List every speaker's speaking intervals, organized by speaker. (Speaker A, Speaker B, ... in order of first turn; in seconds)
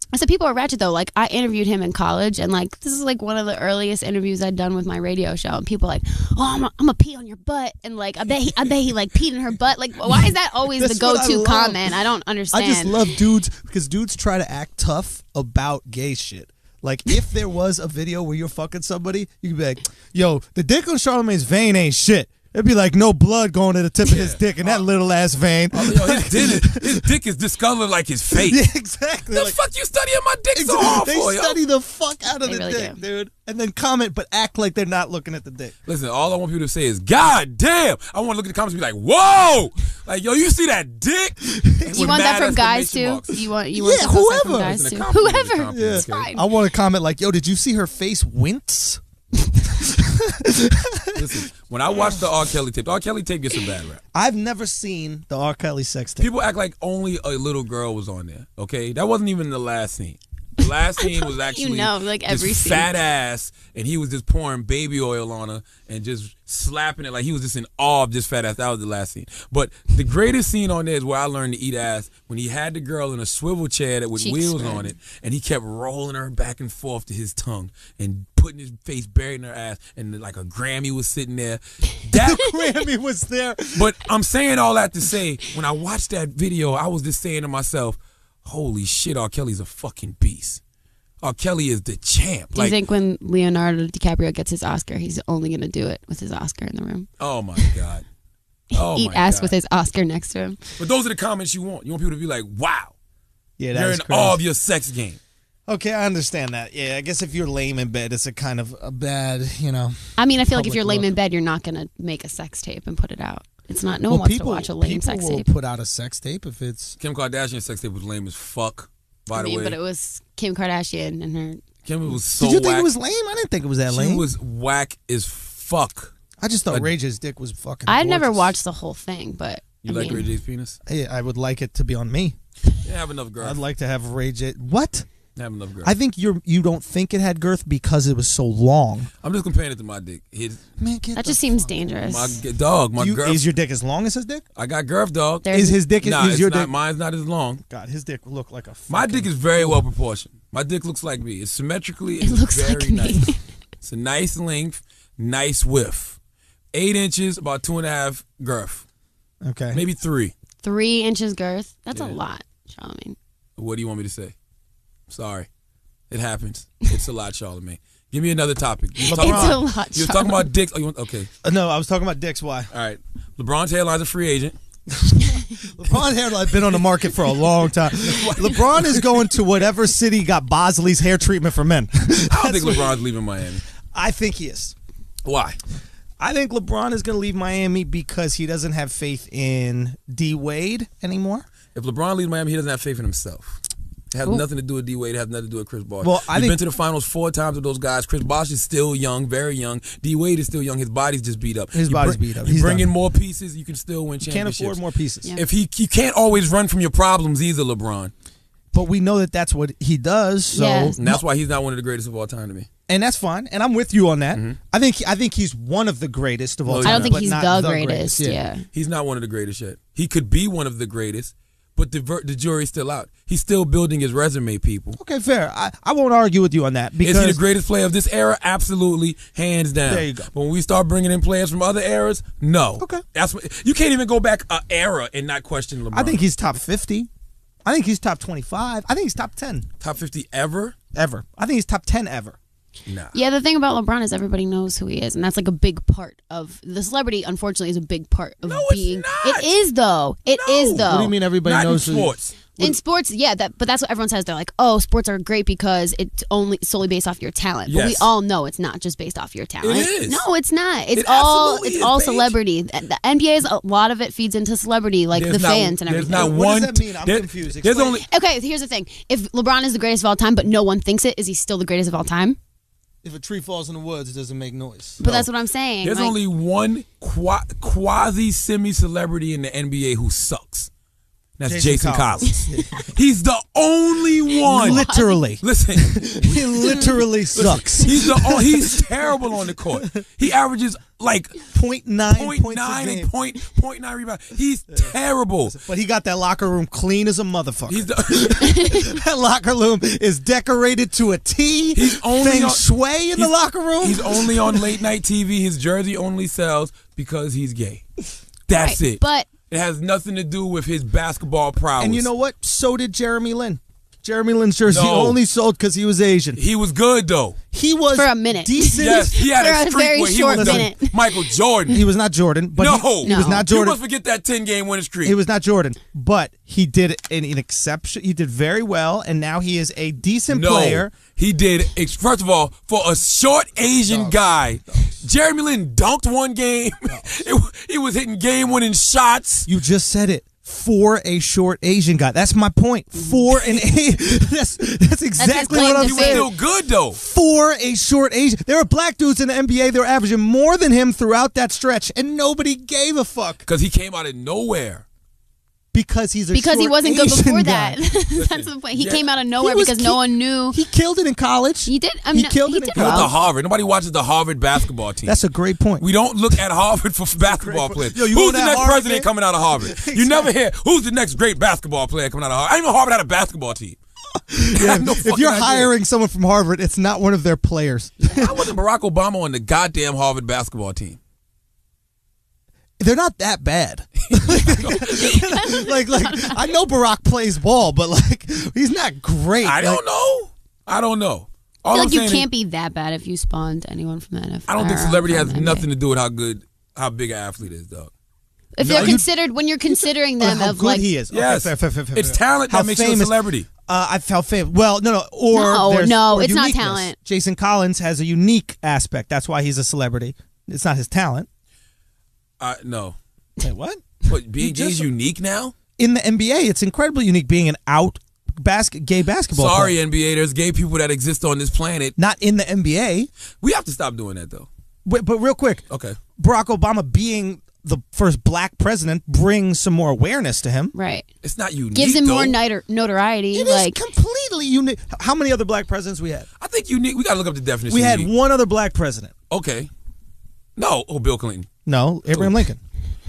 Speaker A: 0.1-13.1, 32.4-33.0, 41.9-46.4, 61.0-62.9, 74.2-74.9, 92.5-97.7, 98.7-100.8, 110.2-115.5, 119.3-121.6, 127.9-130.3, 141.2-142.4, 145.4-145.8, 152.2-153.4, 160.6-163.2, 169.0-170.5, 210.5-210.9, 216.8-218.7, 243.1-251.1, 252.6-266.3, 268.0-272.4, 275.0-276.2, 284.4-285.3, 298.4-298.9, 308.5-309.3, 317.9-321.3, 323.0-323.5, 345.2-346.3, 356.3-360.6, 361.7-363.1, 385.3-386.4, 391.7-395.7, 398.6-400.9, 405.3-407.0, 430.7-431.1, 431.7-433.8
Speaker B: 10.8-11.9, 12.5-27.1, 28.3-29.6, 30.6-35.7, 41.5-42.1, 43.7-44.7, 45.7-49.0, 49.7-51.5, 54.1-56.3, 82.2-83.9, 103.6-104.4, 105.7-111.1, 114.1-117.0, 122.3-124.3, 126.4-128.5, 130.9-132.4, 133.4-135.1, 135.8-139.1, 140.8-141.9, 143.0-144.4, 145.5-146.7, 147.7-149.8, 159.4-159.8, 169.1-169.6, 171.4-172.7, 174.9-182.9, 183.9-184.8, 186.2-191.5, 196.0-196.6, 201.7-202.9, 204.2-205.3, 208.7-211.2, 212.9-218.4, 225.0-227.4, 229.9-230.3, 235.9-237.1, 237.7-239.7, 240.9-242.4, 250.8-252.1, 266.1-268.0, 273.0-275.0, 281.5-282.9, 284.5-288.9, 291.5-293.1, 295.5-304.7, 311.8-316.4, 317.5-319.2, 320.3-320.7, 321.7-323.8, 325.0-330.9, 333.9-335.0, 339.5-346.3, 346.9-353.4, 355.7-357.8, 359.4-363.1, 365.1-365.9, 367.2-370.3, 374.3-378.5, 382.8-389.8, 398.7-399.1, 400.2-411.3, 413.4-414.9, 415.8-419.8, 422.0-423.1, 424.9-425.6, 426.2-430.7, 433.3-436.3, 437.7-439.1, 441.6-442.6
Speaker C: 24.1-24.8, 25.7-28.6, 29.3-31.6, 35.9-43.4, 44.6-46.3, 51.1-54.0, 56.2-82.6, 83.8-90.6, 91.2-92.8, 97.2-98.0, 98.7-99.5, 100.8-102.9, 103.7-105.2, 117.0-119.8, 121.8-122.9, 123.9-126.1, 129.8-130.8, 132.8-133.6, 135.4-135.9, 139.2-140.7, 142.1-143.5, 144.6-145.5, 146.0-147.6, 148.9-156.2, 156.7-158.8, 159.7-160.3, 163.6-164.3, 165.1-165.5, 166.1-171.3, 172.7-174.6, 178.0-179.3, 182.3-183.6, 185.2-185.6, 191.8-204.8, 205.4-208.1, 211.0-212.7, 216.7-217.3, 218.7-225.0, 227.0-236.2, 239.8-240.8, 242.9-243.2, 248.4-249.5, 250.3-252.7, 257.7-258.1, 259.6-260.2, 260.9-262.3, 265.1-268.0, 275.0-275.3, 275.8-280.7, 281.4-284.9, 285.4-291.4, 292.1-295.6, 297.7-298.5, 301.7-307.9, 308.5-312.1, 314.7-315.2, 316.4-317.4, 318.8-321.8, 322.6-325.1, 330.3-339.5, 345.5-347.0, 353.5-354.9, 358.1-359.1, 362.8-365.2, 365.8-373.8, 374.5-375.7, 378.1-381.0, 384.0-385.4, 389.4-392.3, 394.5-397.9, 398.6-399.0, 401.1-403.5, 412.4-413.0, 414.1-415.6, 419.3-421.9, 423.4-424.5, 425.7-426.0, 431.2-432.4, 436.4-438.1, 439.3-439.7, 440.6-441.5, 442.1-442.4